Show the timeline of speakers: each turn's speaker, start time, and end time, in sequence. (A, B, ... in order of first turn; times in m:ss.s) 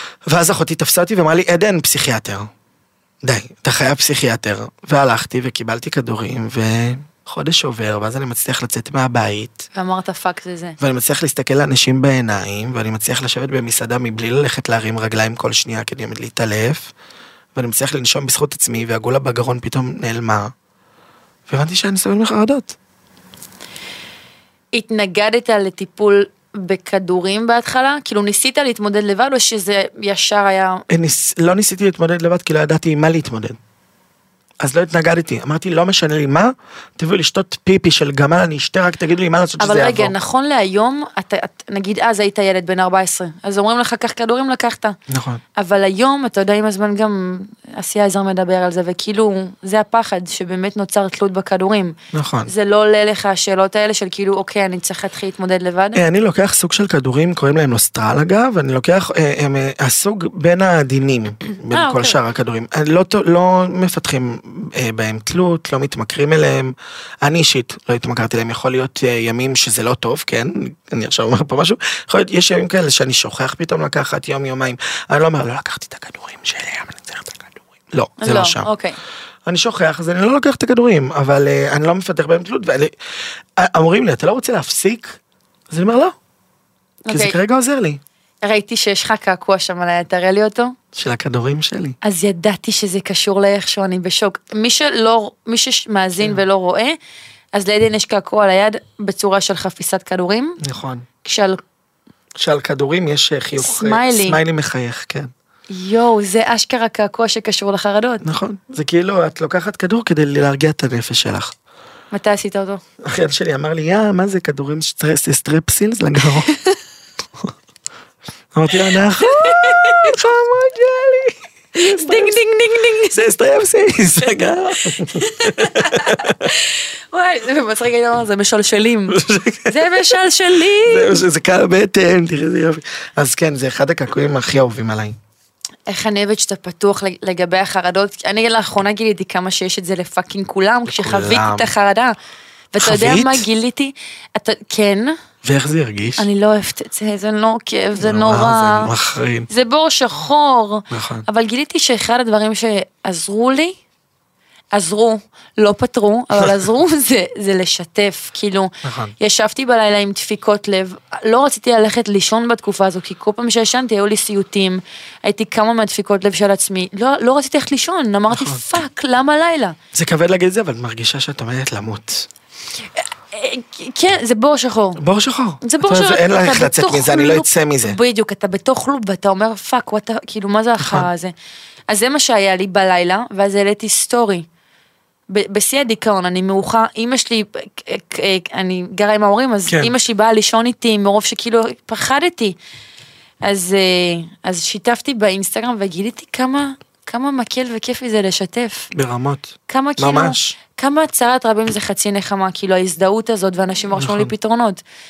0:00.3-0:02.5 A
0:03.2-0:09.7 A
0:09.7-0:10.8 B
0:10.8-0:16.9 A
0:17.6-0:20.5 A
0:21.5-0:22.8 A
0:24.7-0:30.8 B
0:30.9-0:33.6 A
0:34.6-0:40.1 A
0:39.6-0:45.0 B
0:45.1-0:45.4 A
0:45.6-0:52.0 B
0:52.1-0:52.5 A
0:52.5-0:56.0 B
0:55.9-1:18.7 A
1:01.7-1:02.2 B
1:18.2-1:19.0 B
1:19.5-1:23.0 A
1:23.6-1:25.2 A
1:25.7-1:26.2 A
1:27.1-1:27.4 B
1:27.1-1:28.0 A
1:28.4-1:30.8 B
1:30.9-1:32.0 A
1:32.0-1:37.0 B
1:37.5-1:40.6 B
1:40.6-1:41.1 A
1:41.2-1:41.6 B
1:42.4-1:45.3 A
1:43.6-1:44.4 B
1:45.7-1:48.2 B
1:48.2-1:51.5 A
1:52.1-1:52.8 B
1:53.0-1:56.5 A
1:56.5-1:56.8 B
1:58.5-2:02.4 A
1:59.2-2:00.2 B
2:01.8-2:03.2 B
2:03.1-2:06.4 A
2:04.9-2:11.2 B
2:09.1-2:15.2 A
2:15.9-2:22.1 B
2:20.9-2:21.7 A
2:22.7-2:25.2 B
2:22.8-2:23.5 A
2:25.4-2:26.3 A
2:26.2-2:28.9 B
2:28.0-2:29.5 A
2:29.5-2:33.8 B
2:30.9-2:31.3 A
2:34.7-2:49.8 B
2:38.8-2:39.2 A
2:48.3-2:48.7 A
2:49.9-2:52.3 A
2:53.0-2:55.0 B
2:55.0-2:58.0 A
2:55.6-3:01.3 B
3:00.8-3:01.1 A
3:01.9-3:04.5 B
3:05.3-3:12.6 B
3:09.7-3:09.9 A
3:13.4-3:18.9 B
3:18.9-3:20.6 A
3:19.7-3:24.8 B
3:23.9-3:24.3 A